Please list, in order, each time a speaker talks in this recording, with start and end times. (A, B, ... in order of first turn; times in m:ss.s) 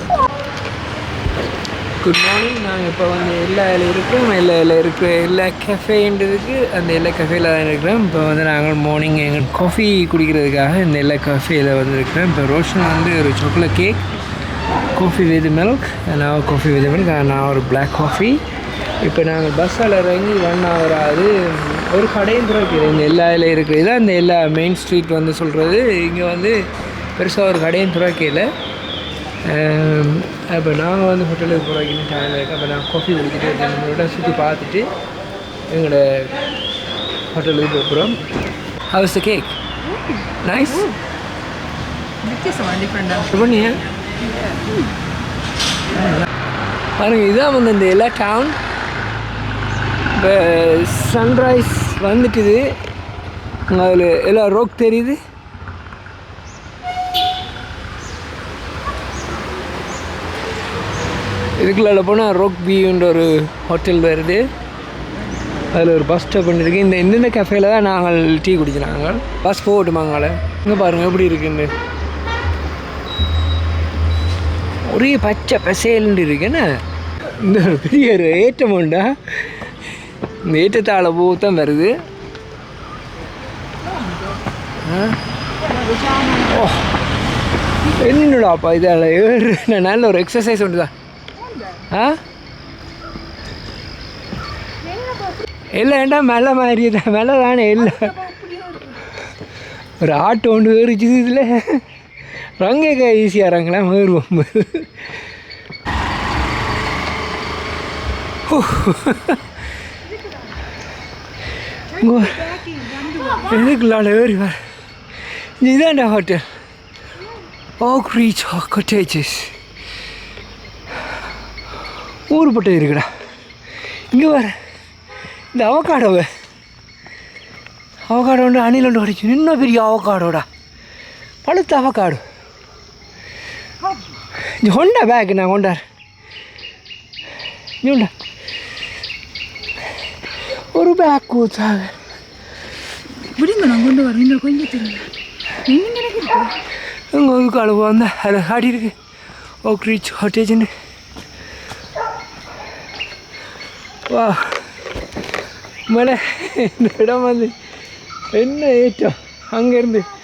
0:02.0-0:14.0 A
0:14.9-0:18.4 A
0:19.0-0:26.6 A
0:27.2-0:28.5 A
0:29.4-0:34.9 A
0:35.7-0:36.4 A
0:37.3-0:38.2 A
0:38.9-0:39.6 A
0:39.9-0:40.2 B
0:40.4-0:41.0 A
0:42.2-0:43.3 B
0:43.3-0:43.8 A
0:44.3-0:44.8 B
0:47.0-0:48.6 A
0:50.2-0:52.7 A
0:53.7-0:55.2 A
1:01.6-1:04.4 A
1:05.7-1:11.7 A
1:14.9-1:19.5 A
1:20.5-1:21.9 A
1:23.8-1:24.4 B
1:24.8-1:25.2 A
1:25.6-1:26.8 B
1:26.5-1:26.9 A
1:28.0-1:30.9 A
1:31.4-1:31.9 B
1:31.9-1:32.2 A
1:34.8-1:35.5 B
1:35.8-1:38.1 A
1:37.8-1:39.2 B
1:40.0-1:41.8 A
1:42.6-1:45.0 A
1:48.5-1:49.4 A
1:50.1-1:50.6 B
1:51.9-1:53.8 B
1:52.0-1:52.4 A
1:53.5-1:54.6 A
1:55.6-1:56.4 A
1:57.8-1:59.6 A
2:02.3-2:03.1 A
2:04.1-2:04.5 A
2:05.5-2:06.3 A
2:08.1-2:10.5 A
2:11.4-2:12.2 A
2:14.4-2:15.8 A
2:17.8-2:18.1 A
2:20.7-2:22.0 A
2:23.4-2:25.1 B
2:25.6-2:26.6 B
2:27.1-2:29.0 A
2:29.6-2:30.7 A
2:34.1-2:34.7 A
2:35.9-2:37.6 A
2:38.3-2:40.1 A